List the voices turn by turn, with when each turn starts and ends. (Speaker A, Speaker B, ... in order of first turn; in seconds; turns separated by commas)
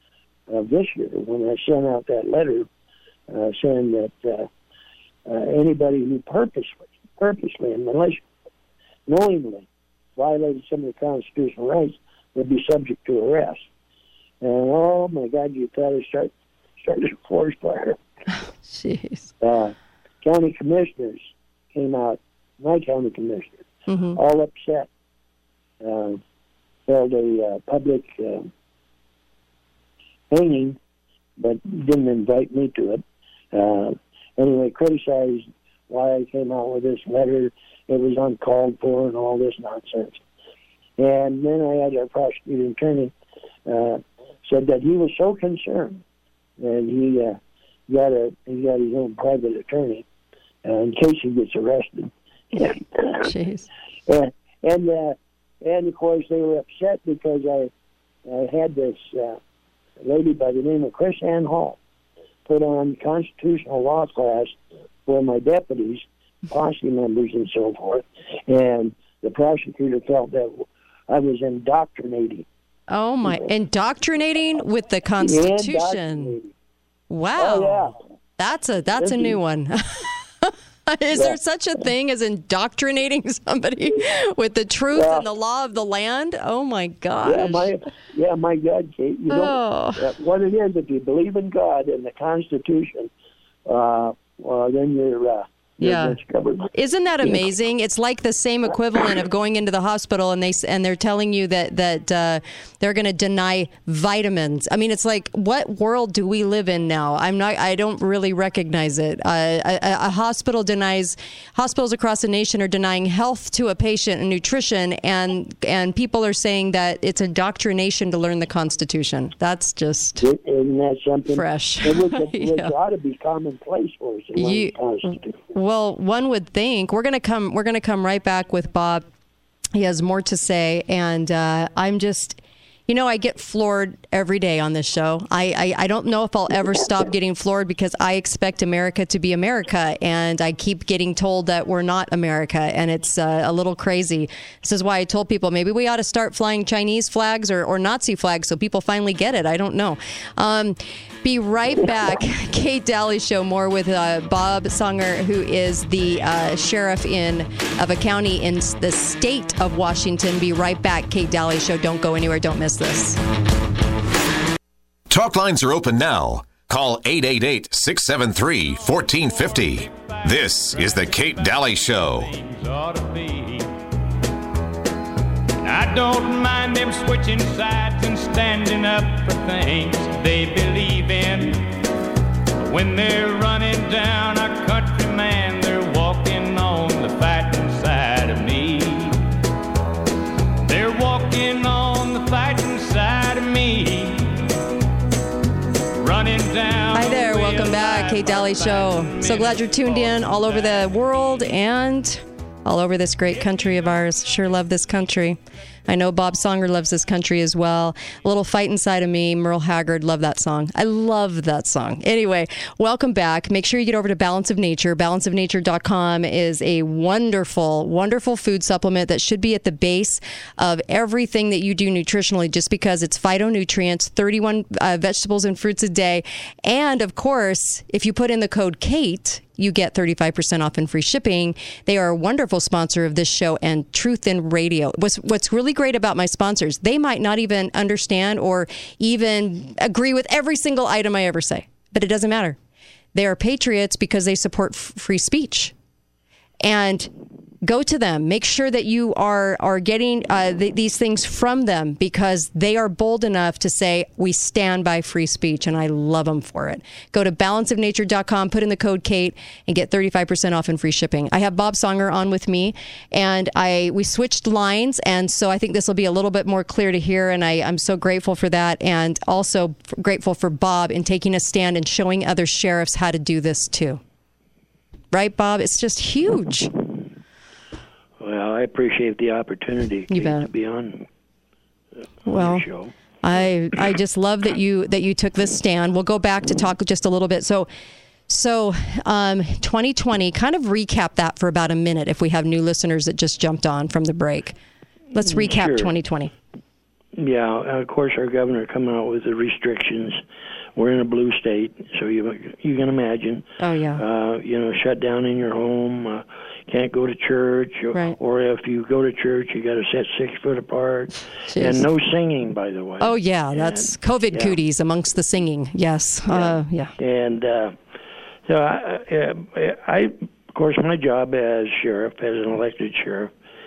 Speaker A: 0.5-2.7, Speaker A: 3.3-4.5, Speaker A: 5.3-8.2, Speaker A: 9.1-13.6, Speaker A: 14.4-18.0, Speaker B: 18.6-19.3, Speaker A: 19.4-24.9, Speaker B: 23.9-24.2, Speaker A: 25.8-26.2, Speaker A: 26.9-28.5, Speaker A: 30.3-30.8, Speaker A: 31.4-40.2, Speaker A: 41.0-43.1, Speaker A: 43.6-46.0, Speaker A: 46.6-50.0, Speaker A: 50.6-53.3, Speaker B: 53.2-53.7, Speaker A: 54.1-57.7, Speaker A: 58.2-59.4, Speaker A: 60.0-61.8, Speaker A: 62.5-64.5, Speaker A: 65.0-72.5, Speaker B: 72.9-76.3, Speaker A: 75.2-76.5, Speaker B: 77.1-87.7, Speaker A: 77.4-77.9, Speaker A: 79.0-79.3, Speaker A: 84.9-85.2, Speaker A: 87.2-93.1, Speaker B: 89.3-90.1, Speaker A: 93.7-96.7, Speaker B: 95.8-96.2, Speaker B: 96.7-120.2, Speaker A: 120.2-125.3, Speaker B: 121.3-122.7, Speaker B: 124.3-124.7, Speaker B: 125.5-129.0, Speaker B: 129.7-163.2, Speaker C: 165.1-172.3, Speaker D: 168.9-173.7, Speaker D: 175.6-181.6, Speaker D: 182.6-189.2, Speaker D: 190.6-194.4, Speaker D: 196.0-201.0, Speaker B: 196.9-242.6, Speaker B: 243.1-245.7, Speaker B: 246.6-247.1, Speaker B: 247.6-274.0, Speaker B: 275.1-276.7, Speaker E: 278.2-281.1, Speaker B: 280.1-280.5, Speaker E: 282.2-282.9, Speaker B: 282.2-282.7, Speaker B: 283.2-287.7, Speaker B: 288.3-294.6, Speaker B: 295.1-296.3, Speaker E: 295.2-295.9, Speaker E: 297.1-300.2, Speaker E: 300.8-314.6, Speaker B: 303.6-304.0, Speaker B: 311.5-311.9, Speaker B: 313.0-316.9, Speaker E: 316.3-317.8, Speaker E: 318.4-323.3